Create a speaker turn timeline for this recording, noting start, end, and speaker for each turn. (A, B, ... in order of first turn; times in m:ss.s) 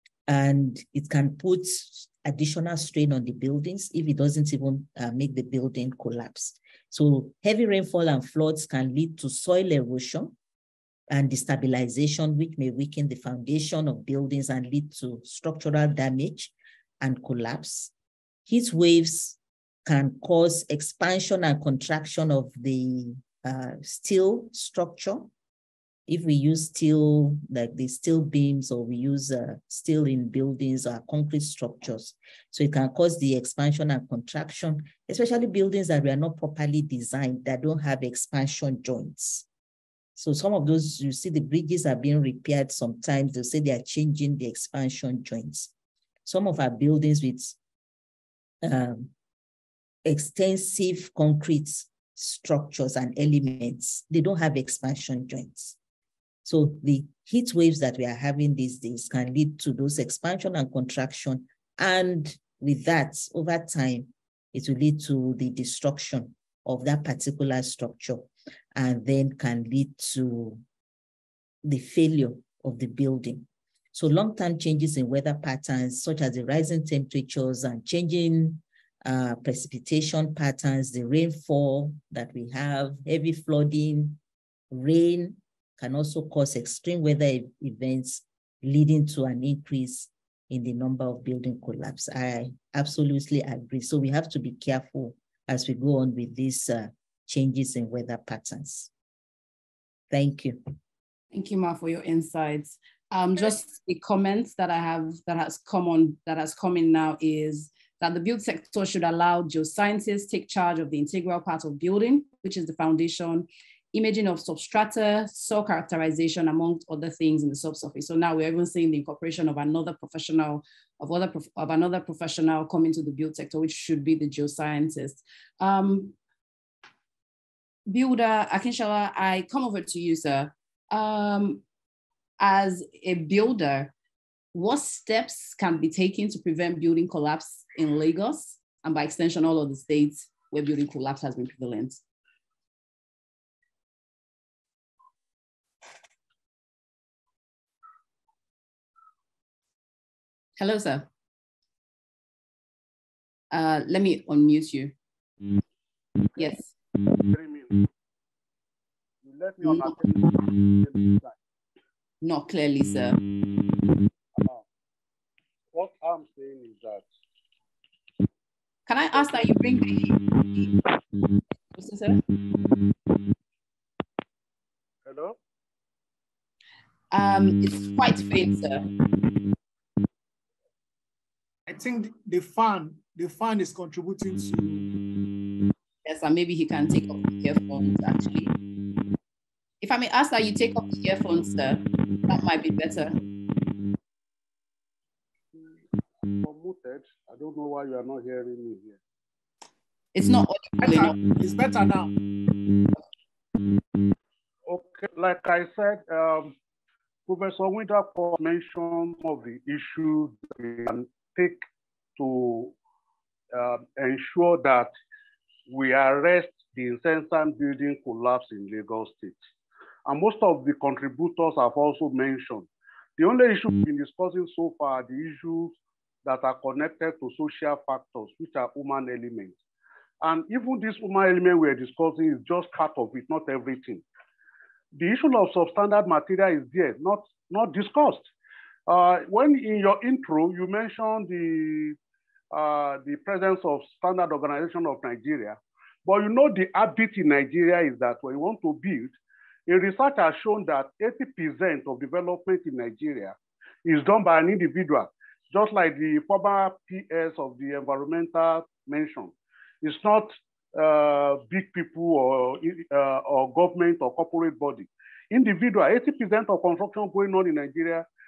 0:00.3-0:10.4 A
0:11.1-0:17.9 A
0:18.5-0:25.3 A
0:26.1-0:39.5 A
0:40.2-0:45.7 A
0:46.2-0:47.6 A
0:48.6-0:49.1 A
0:50.0-0:55.8 A
0:56.4-1:10.6 A
1:11.6-1:24.2 A
1:24.7-1:38.9 A
1:40.1-1:40.6 A
1:41.3-2:06.2 B
2:07.9-2:11.6 B
2:12.4-2:13.9 B
2:14.5-2:22.0 B
2:30.6-2:31.1 B
2:33.5-2:34.9 B
2:36.4-2:36.7 B
2:37.3-2:37.7 C
2:39.2-2:41.4 C
2:39.6-2:39.9 B
2:42.2-2:43.2 B
2:44.4-2:44.6 C
2:45.7-2:47.1 C
2:48.9-2:50.7 B
2:51.7-2:52.2 B
2:55.1-2:55.4 C
2:57.1-2:58.8 B
3:01.7-3:04.9 D
3:06.0-3:08.5 B
3:09.8-3:13.1 B
3:16.3-3:19.0 C
3:20.1-3:21.2 B
3:20.8-3:22.1 D
3:24.7-3:26.5 C
3:27.3-3:31.6 C
3:32.2-3:32.7 C
3:33.5-3:34.9 C
3:35.7-3:39.4 C
3:40.1-3:49.6 C
3:50.2-3:54.0 C
3:55.0-3:58.3 C
3:58.9-4:02.0 C
4:02.5-4:09.1 C
4:09.7-4:28.1 C